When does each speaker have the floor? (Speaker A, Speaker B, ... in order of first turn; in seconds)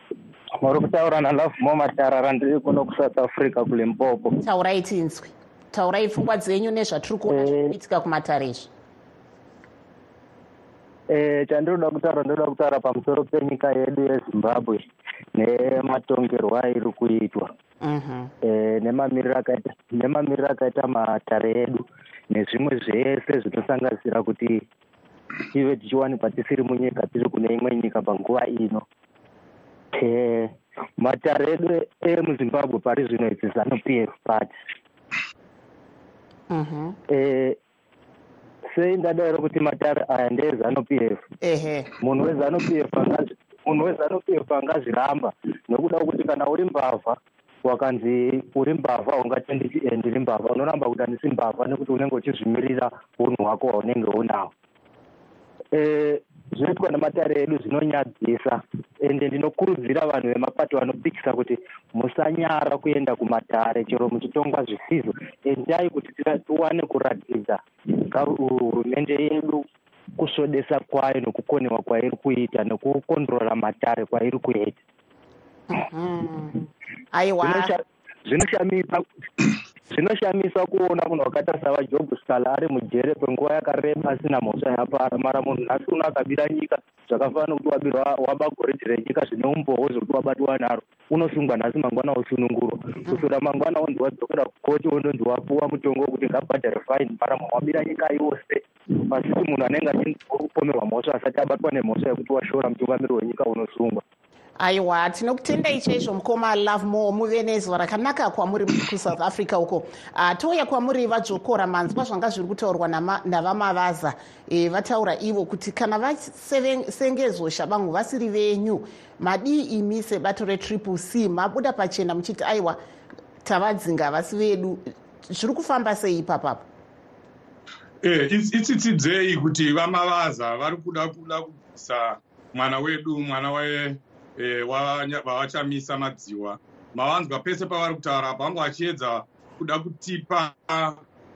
Speaker A: 0.6-4.4, 7.3-7.7, 11.1-14.8, 15.4-17.5, 18.4-24.6, 25.5-28.9, 29.9-34.5, 37.1-37.6, 38.7-41.2, 42.0-54.5, 55.7-69.7, 70.2-74.8, 77.4-104.0
Speaker B: 4.4-8.7, 17.8-18.3, 36.5-37.0, 41.4-41.9, 75.7-77.7, 104.6-122.8, 123.4-126.7
Speaker C: 128.0-141.0